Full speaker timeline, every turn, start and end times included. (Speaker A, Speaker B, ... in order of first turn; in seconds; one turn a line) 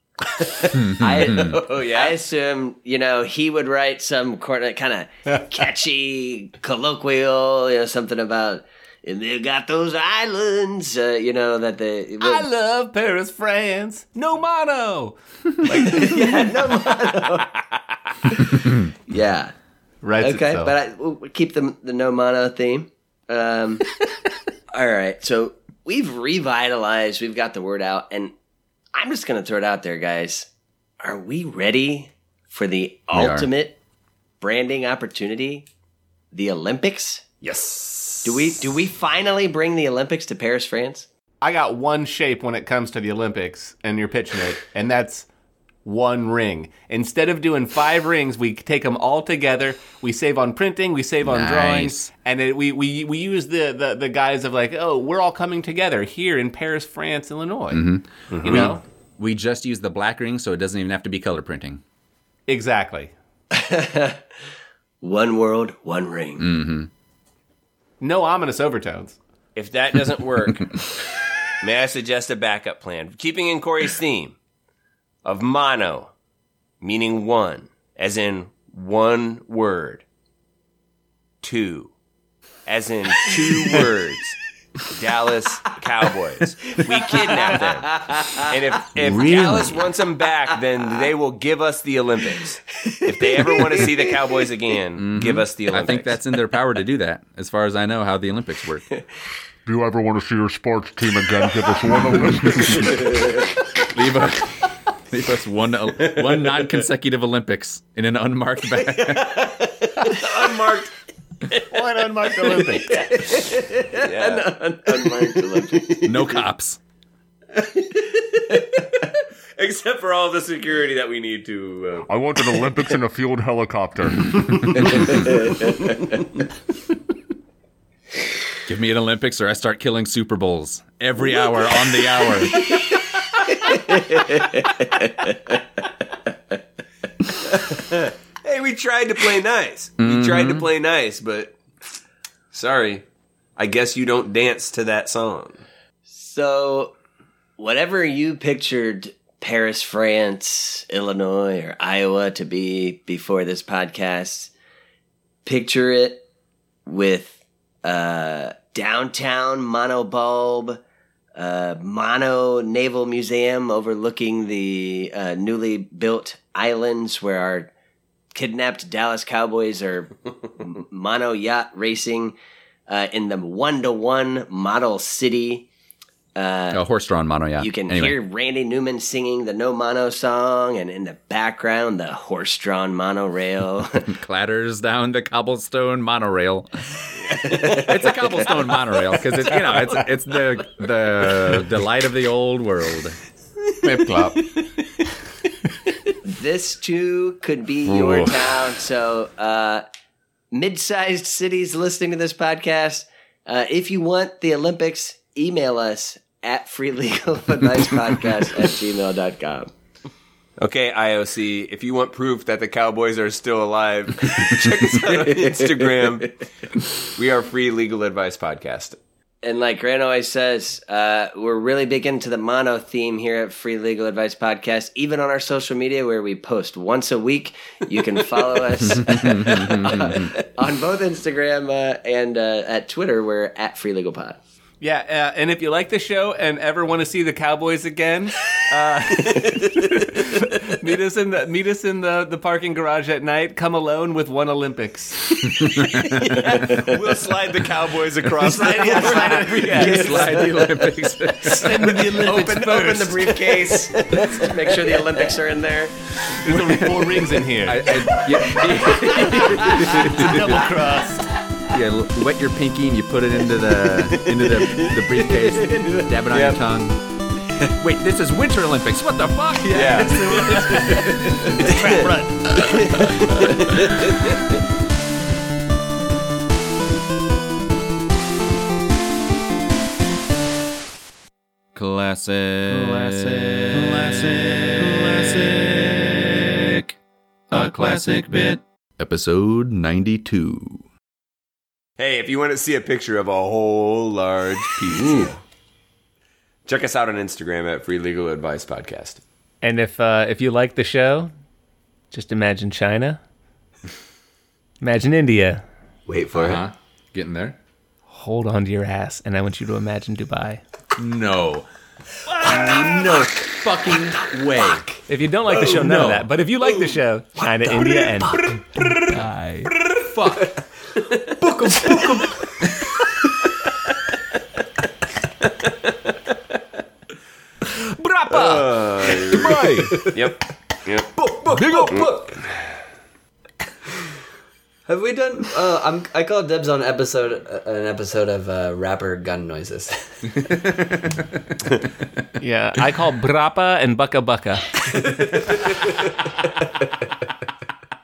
Speaker A: 0.8-1.6
Speaker B: 1.0-12.5
Speaker C: 1.1-2.2
Speaker D: 12.2-16.6
Speaker B: 15.7-17.6
Speaker B: 18.3-19.5
Speaker D: 20.0-20.7
Speaker B: 20.2-23.8
Speaker B: 24.7-28.3
Speaker B: 28.9-30.5
Speaker B: 31.0-33.8
Speaker A: 33.1-33.5
Speaker B: 34.4-35.7
Speaker B: 36.3-37.2
Speaker C: 37.4-38.3
Speaker B: 38.2-41.1
Speaker D: 41.4-45.3
Speaker D: 45.9-58.8
Speaker A: 51.2-52.1
Speaker A: 57.7-61.8
Speaker C: 58.3-58.7
Speaker D: 62.5-63.1
Speaker B: 63.5-64.2
Speaker B: 65.0-66.5
Speaker A: 66.4-66.9
Speaker D: 68.0-69.2
Speaker C: 69.5-71.0
Speaker C: 71.6-74.4
Speaker C: 75.2-76.1
Speaker C: 76.8-80.0
Speaker C: 81.4-81.9
Speaker C: 82.7-96.2
Speaker B: 88.0-88.5
Speaker A: 89.0-89.8
Speaker B: 92.9-94.0
Speaker A: 95.0-98.9
Speaker E: 99.7-103.4
Speaker A: 103.8-109.5
Speaker C: 109.3-110.9
Speaker D: 111.7-113.1
Speaker B: 112.9-116.4
Speaker C: 114.0-114.5
Speaker A: 116.0-116.8
Speaker C: 119.6-122.5
Speaker E: 122.0-125.4
Speaker A: 128.7-132.7
Speaker B: 133.7-135.1
Speaker C: 137.8-141.8
Speaker A: 140.0-140.7
Speaker C: 142.5-143.0
Speaker C: 143.6-145.6
Speaker B: 146.1-146.9
Speaker B: 147.6-154.5
Speaker B: 155.4-156.2
Speaker B: 156.9-160.8
Speaker B: 161.4-167.7
Speaker B: 168.3-172.3
Speaker B: 172.9-175.7
Speaker B: 176.4-176.8
Speaker A: 176.7-178.2
Speaker B: 177.6-184.1
Speaker A: 184.1-186.8
Speaker A: 187.4-193.2
Speaker B: 187.5-187.8
Speaker D: 193.8-194.5
Speaker B: 196.2-199.8
Speaker C: 197.9-198.3
Speaker B: 200.5-209.7
Speaker C: 210.6-216.4
Speaker C: 217.0-219.0
Speaker B: 219.4-234.4
Speaker A: 228.9-230.3
Speaker D: 234.8-246.9
Speaker A: 245.5-246.2
Speaker C: 246.7-250.4
Speaker D: 248.4-250.4
Speaker B: 248.6-250.5
Speaker A: 249.6-252.1
Speaker D: 251.4-253.8
Speaker B: 251.7-256.2
Speaker D: 256.4-257.9
Speaker A: 256.5-260.7
Speaker D: 259.4-261.3
Speaker A: 261.7-267.0
Speaker C: 266.3-266.6
Speaker A: 267.6-271.8
Speaker C: 269.7-270.6
Speaker D: 270.4-271.0
Speaker C: 271.6-272.1
Speaker D: 271.8-272.1
Speaker F: 273.0-273.4
Speaker A: 281.8-286.9
Speaker A: 287.5-290.9
Speaker C: 292.0-295.4
Speaker C: 296.7-299.2
Speaker D: 299.6-301.3
Speaker D: 302.1-303.2
Speaker D: 304.8-305.6
Speaker F: 306.1-306.7
Speaker A: 306.3-307.6
Speaker D: 308.1-310.6
Speaker A: 311.0-311.7
Speaker A: 312.4-314.9
Speaker F: 312.8-313.3
Speaker D: 315.1-318.4
Speaker F: 315.5-316.1
Speaker A: 315.6-316.3
Speaker F: 317.6-319.1
Speaker D: 319.1-319.7
Speaker A: 320.0-320.5
Speaker F: 321.3-323.1
Speaker A: 328.0-329.9
Speaker C: 328.3-332.1
Speaker F: 329.1-330.4
Speaker F: 331.1-332.8
Speaker F: 334.9-340.6
Speaker D: 342.4-344.8
Speaker F: 344.9-346.1